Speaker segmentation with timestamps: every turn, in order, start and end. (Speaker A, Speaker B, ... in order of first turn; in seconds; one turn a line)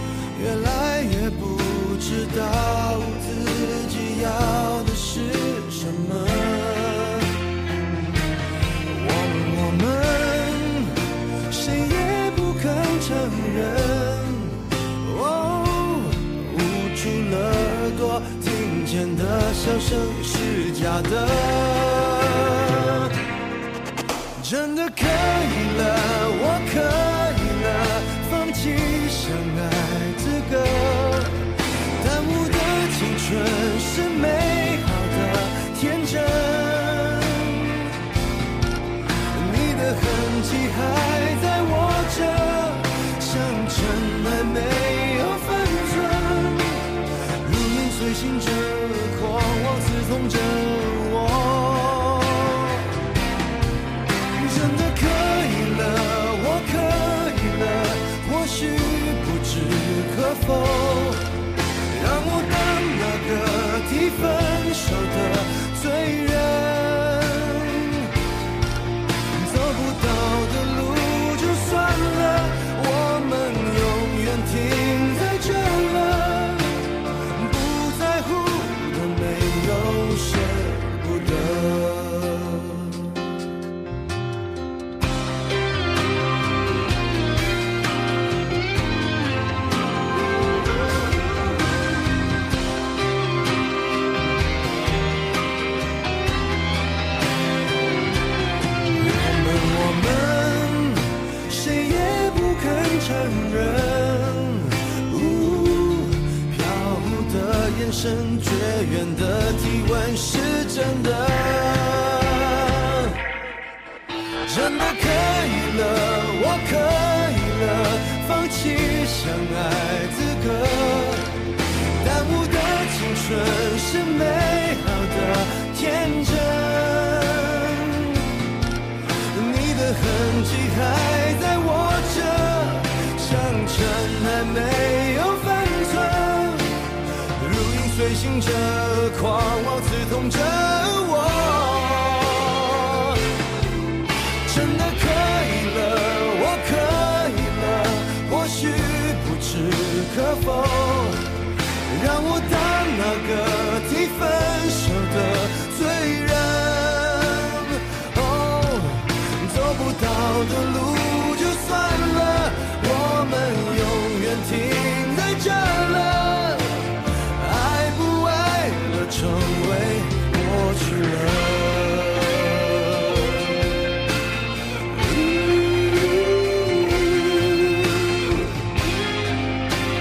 Speaker A: 0.3-7.3
Speaker A: 8.9-23.1
Speaker A: 24.4-37.9
Speaker A: 39.3-52.9
Speaker A: 54.3-61.2
Speaker A: 61.9-68.1
Speaker A: 69.3-83.2
Speaker A: 99.0-113.2
Speaker A: 114.5-121.3
Speaker A: 122.0-128.3
Speaker A: 129.3-143.2
Speaker A: 144.4-173.5
Speaker A: 174.9-178.6